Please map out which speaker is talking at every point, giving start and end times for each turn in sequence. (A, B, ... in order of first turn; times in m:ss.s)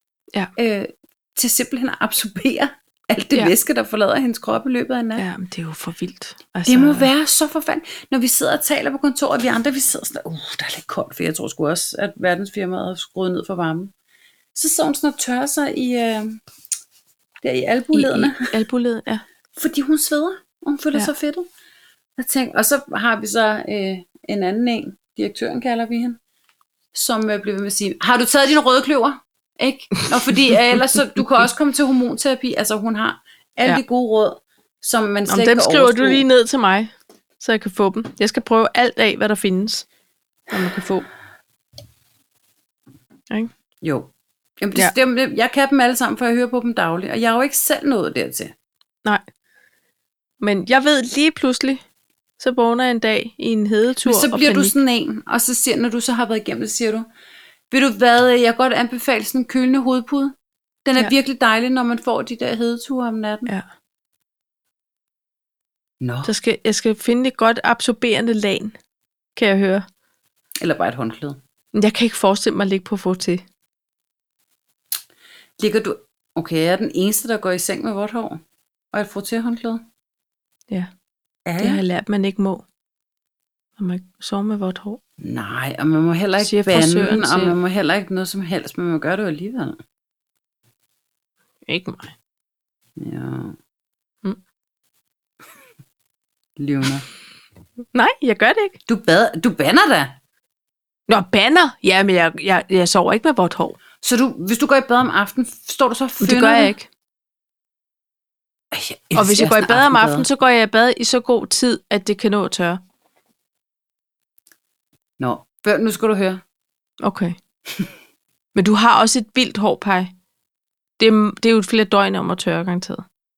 0:00.6-0:05.3 A
0:05.2-0:07.1 B
0:06.7-0:13.9 A
0:14.6-0:16.4 A
0:17.4-0:18.4 A
0:17.9-0:19.2 B
0:19.6-0:21.5 A
0:22.2-0:26.2 A
0:26.9-0:36.2 A
0:35.3-0:39.9 B
0:40.5-0:41.1 B
0:43.8-0:48.5 A
0:50.4-0:51.8 B
0:52.4-0:54.7 B
0:54.0-0:57.1 A
0:57.7-1:03.5 A
1:06.0-1:06.3 A
1:06.2-1:08.8 B
1:09.4-1:09.8 B
1:10.6-1:11.4 A
1:11.7-1:13.4 B
1:15.6-1:18.4 A
1:18.9-1:19.8 A
1:21.5-1:21.8 A
1:21.6-1:22.6 B
1:23.8-1:25.0 B
1:25.2-1:29.8 A
1:26.4-1:27.6 B
1:31.7-1:32.1 B
1:33.0-1:33.6 A
1:36.6-1:37.0 A
1:37.9-1:38.8 B
1:38.9-1:40.2 A
1:41.1-1:43.8 B
1:44.0-1:46.7 A
1:46.2-1:46.9 B
1:48.7-1:50.3 A
1:49.2-1:52.8 B
1:55.2-1:56.4 A
1:57.0-1:57.4 B
1:58.6-2:00.1 B
2:01.0-2:03.1 B